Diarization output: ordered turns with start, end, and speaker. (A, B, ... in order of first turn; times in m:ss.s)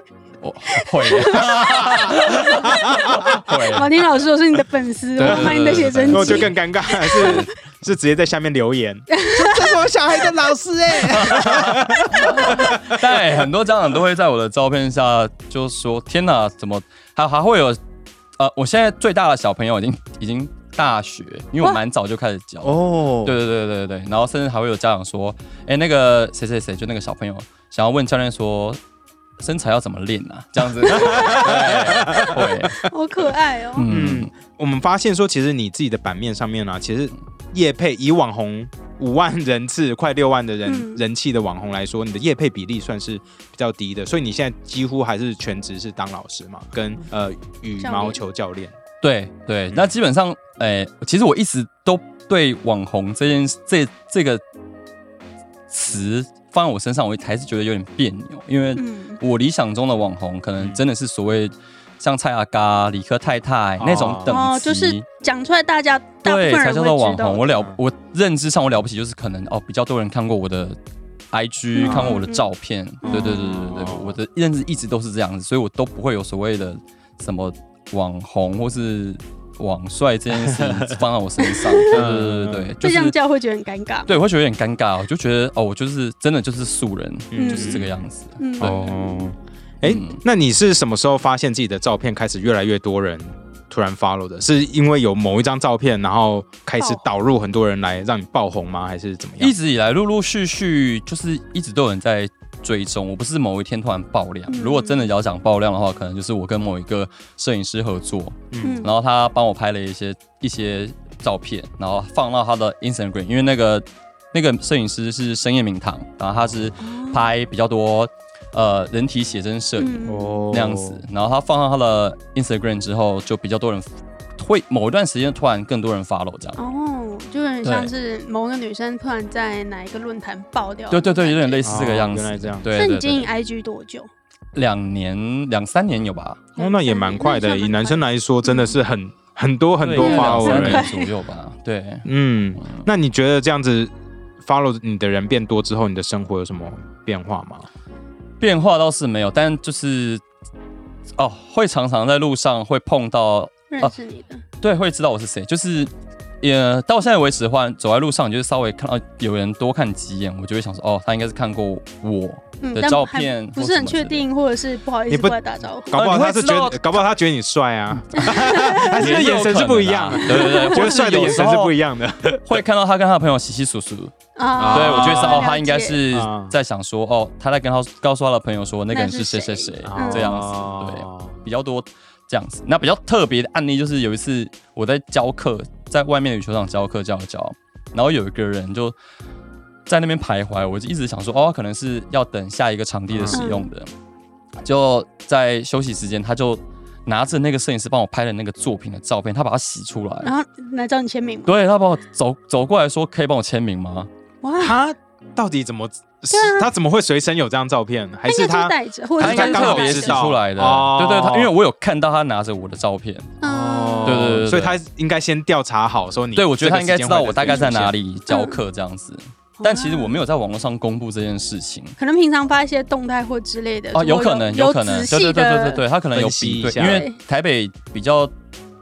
0:00.4-0:04.0 A
0:00.8-0:07.5 B
0:01.6-0:03.4 C
0:05.2-0:06.5 A
0:05.2-0:13.0 C
0:07.1-0:07.5 A
0:09.1-0:09.8 B
0:11.0-0:17.8 A
0:18.4-0:28.8 A
0:22.6-0:23.3 C
0:29.4-0:32.9 A
0:31.0-0:31.4 B
0:31.0-0:32.4 C
0:32.8-0:33.8 B
0:33.7-0:34.3 A
0:33.8-0:48.7 C
0:40.7-0:41.0 B
0:47.8-0:48.2 B
0:49.0-0:54.4 A
0:55.7-1:05.0 A
0:58.8-0:59.2 B
1:00.6-1:00.8 C
1:03.8-1:04.3 C
1:04.2-1:07.5 B
1:06.2-1:10.8 A
1:11.3-1:23.1 A
1:11.7-1:12.5 B
1:11.8-1:12.2 C
1:13.0-1:14.2 C
1:13.0-1:13.4 B
1:20.6-1:20.9 C
1:21.4-1:22.0 B
1:21.9-1:22.7 C
1:22.8-1:24.1 B
1:24.1-1:28.9 A
1:27.3-1:28.0 C
1:27.3-1:29.3 B
1:28.6-1:39.5 C
1:29.8-1:30.2 A
1:36.8-1:37.0 B
1:39.4-2:06.6 A
1:44.5-1:45.1 B
1:48.5-1:48.8 C
1:48.6-1:48.9 B
1:56.4-1:56.7 C
1:56.8-1:57.3 B
1:59.8-2:00.4 B
2:00.0-2:01.0 C
2:06.6-2:11.6 B
2:07.6-2:07.9 A
2:10.9-2:13.3 A
2:11.6-2:12.7 C
2:12.8-2:14.1 B
2:14.5-2:16.4 A
2:16.6-2:18.7 B
2:16.6-2:20.9 C
2:19.8-2:22.1 A
2:20.0-2:21.1 B
2:22.0-2:27.7 C
2:28.4-2:30.2 A
2:31.2-2:33.9 A
2:33.7-2:34.4 B
2:34.6-2:44.2 A
2:42.6-2:45.9 B
2:45.1-2:45.4 C
2:45.9-2:52.6 C
2:45.9-2:47.0 A
2:48.1-2:49.2 B
2:48.8-2:51.7 A
2:50.2-2:51.0 B
2:52.4-2:54.1 A
2:54.4-2:56.0 B
2:54.6-2:55.5 C
2:54.7-3:08.9 A
2:56.1-2:56.5 C
2:58.9-3:00.4 B
2:59.8-3:01.4 C
3:09.9-3:13.9 A
3:13.1-3:13.4 C
3:13.3-3:13.7 B
3:14.6-3:20.3 A
3:20.2-3:21.5 B
3:21.4-3:24.1 A
3:24.4-3:24.8 B
3:24.6-3:31.5 C
3:26.3-3:26.7 B
3:28.2-3:30.3 B
3:29.2-3:33.3 A
3:33.4-3:34.3 B
3:33.4-3:37.9 C
3:34.0-3:34.8 A
3:36.4-3:41.9 A
3:38.3-3:38.6 B
3:39.6-3:40.2 B
3:42.0-3:45.8 B
3:43.9-3:48.3 A
3:46.1-3:47.1 C
3:46.7-3:47.1 B